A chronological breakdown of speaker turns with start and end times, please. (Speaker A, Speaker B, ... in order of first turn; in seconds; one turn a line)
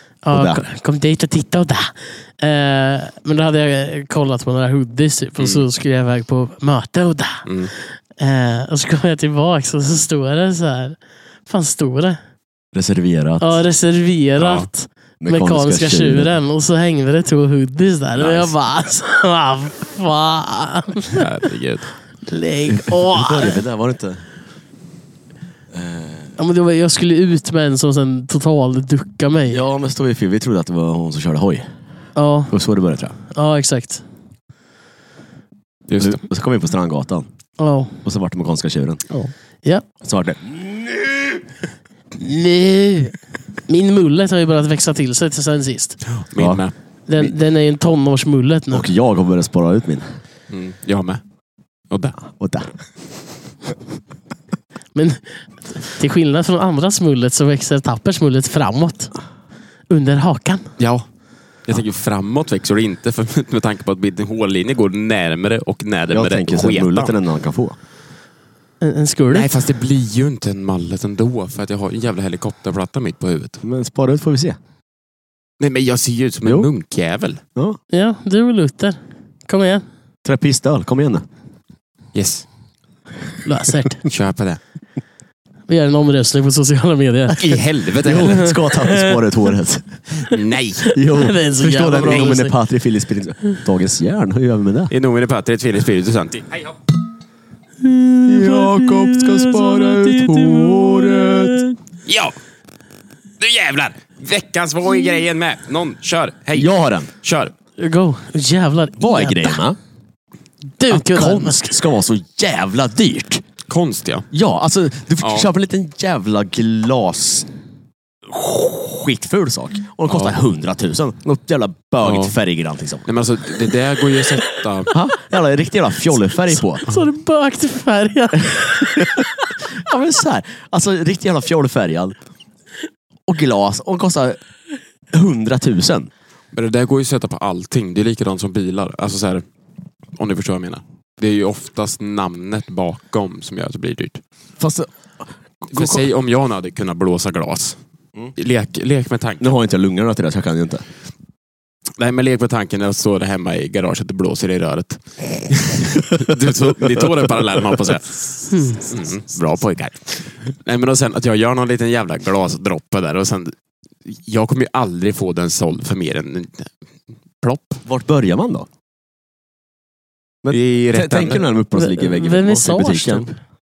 Speaker A: 0.2-12.2
Speaker B: 0.3-0.6
Speaker C: 5.4-5.7
Speaker C: 7.5-7.7
Speaker B: 12.7-13.6
Speaker A: 13.4-21.2
Speaker C: 14.4-14.7
Speaker B: 15.2-16.3
Speaker C: 18.2-18.5
Speaker C: 21.1-21.9
Speaker A: 22.3-23.6
Speaker B: 22.7-24.3
Speaker B: 25.7-26.4
Speaker A: 26.4-29.6
Speaker B: 29.5-31.7
Speaker A: 32.2-32.5
Speaker B: 32.5-33.2
Speaker A: 33.3-34.0
Speaker C: 35.9-36.2
Speaker B: 36.0-37.3
Speaker A: 37.6-38.0
Speaker B: 38.0-39.0
Speaker B: 40.0-41.3
Speaker A: 42.2-46.0
Speaker C: 46.1-46.7
Speaker B: 46.4-46.6
Speaker A: 47.1-48.9
Speaker B: 48.7-50.1
Speaker C: 50.5-51.2
Speaker C: 51.9-52.2
Speaker B: 52.3-52.7
Speaker A: 55.0-59.1
Speaker A: 59.9-60.7
Speaker C: 60.8-61.0
Speaker C: 61.6-67.2
Speaker B: 66.1-67.8
Speaker A: 68.8-69.5
Speaker C: 69.3-73.6
Speaker B: 73.6-74.6
Speaker C: 75.6-77.4
Speaker B: 76.4-76.7
Speaker A: 77.9-79.8
Speaker B: 80.2-81.2
Speaker C: 82.1-82.5
Speaker A: 83.4-84.1
Speaker C: 84.1-84.6
Speaker A: 85.7-87.6
Speaker C: 87.4-88.6
Speaker B: 88.0-89.9
Speaker A: 88.2-89.2
Speaker C: 90.2-90.9
Speaker A: 90.8-92.5
Speaker B: 91.0-94.9
Speaker C: 92.0-92.3
Speaker C: 94.9-96.8
Speaker A: 97.8-101.8
Speaker B: 98.3-101.6
Speaker C: 102.1-102.3
Speaker C: 103.4-107.5
Speaker B: 106.5-107.1
Speaker A: 107.8-109.6
Speaker B: 109.0-109.8
Speaker A: 110.8-111.8
Speaker B: 110.9-113.4
Speaker C: 113.7-114.3
Speaker B: 114.3-117.5
Speaker C: 115.2-115.5
Speaker B: 118.3-123.1
Speaker C: 120.1-120.4
Speaker C: 122.0-122.3
Speaker C: 123.1-125.0
Speaker B: 124.9-126.8
Speaker A: 126.5-129.5
Speaker B: 128.8-132.2
Speaker B: 133.3-134.4
Speaker B: 135.1-136.1
Speaker C: 136.5-139.4
Speaker C: 140.2-144.2
Speaker B: 144.6-144.9
Speaker B: 145.6-146.1
Speaker C: 145.7-147.8
Speaker C: 148.4-149.5
Speaker B: 149.4-150.8
Speaker C: 152.0-166.7
Speaker A: 158.5-158.8
Speaker C: 167.4-167.8
Speaker B: 167.9-168.7
Speaker B: 170.4-173.3
Speaker C: 170.5-171.5
Speaker A: 171.8-173.3